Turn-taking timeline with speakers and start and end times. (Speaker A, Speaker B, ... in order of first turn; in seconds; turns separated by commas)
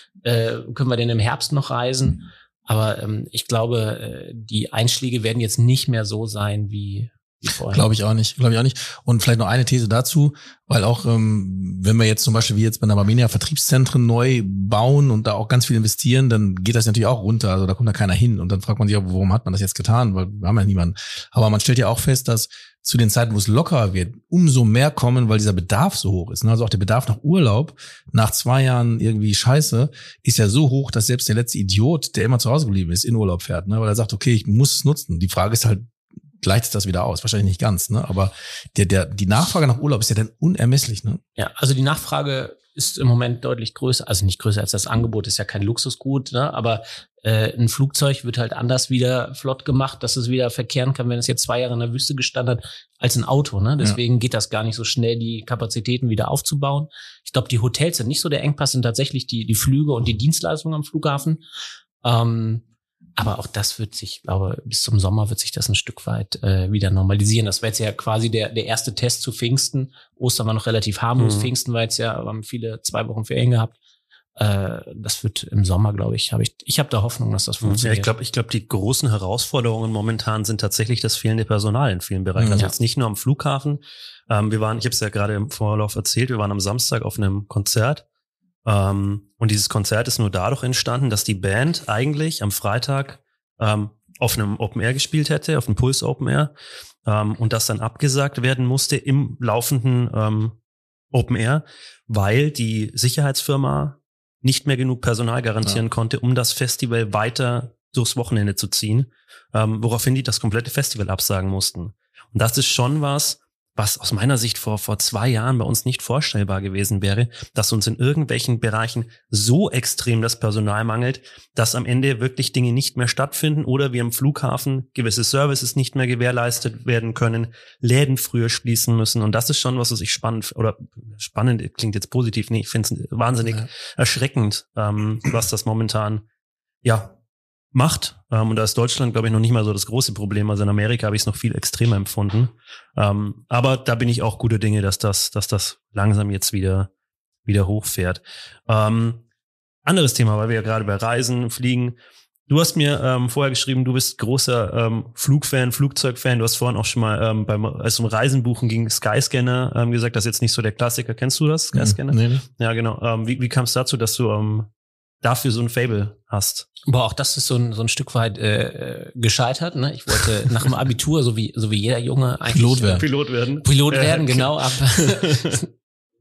Speaker A: 0.2-7.8, Speaker B: 7.7-35.9, Speaker B: 36.4-41.2, Speaker A: 41.4-61.4, Speaker A: 62.0-62.6, Speaker A: 63.2-73.8, Speaker C: 71.2-71.5, Speaker A: 74.4-78.1, Speaker C: 77.6-88.0, Speaker B: 82.4-82.7, Speaker C: 88.7-96.5, Speaker C: 97.0-100.5, Speaker C: 101.1-136.2, Speaker C: 136.8-137.1, Speaker C: 137.7-146.9, Speaker C: 147.4-149.2, Speaker C: 149.8-151.9, Speaker C: 152.5-164.7, Speaker B: 161.7-162.4, Speaker C: 165.2-166.7, Speaker A: 166.9-173.1, Speaker B: 172.5-173.1, Speaker C: 172.9-175.6, Speaker A: 173.6-175.7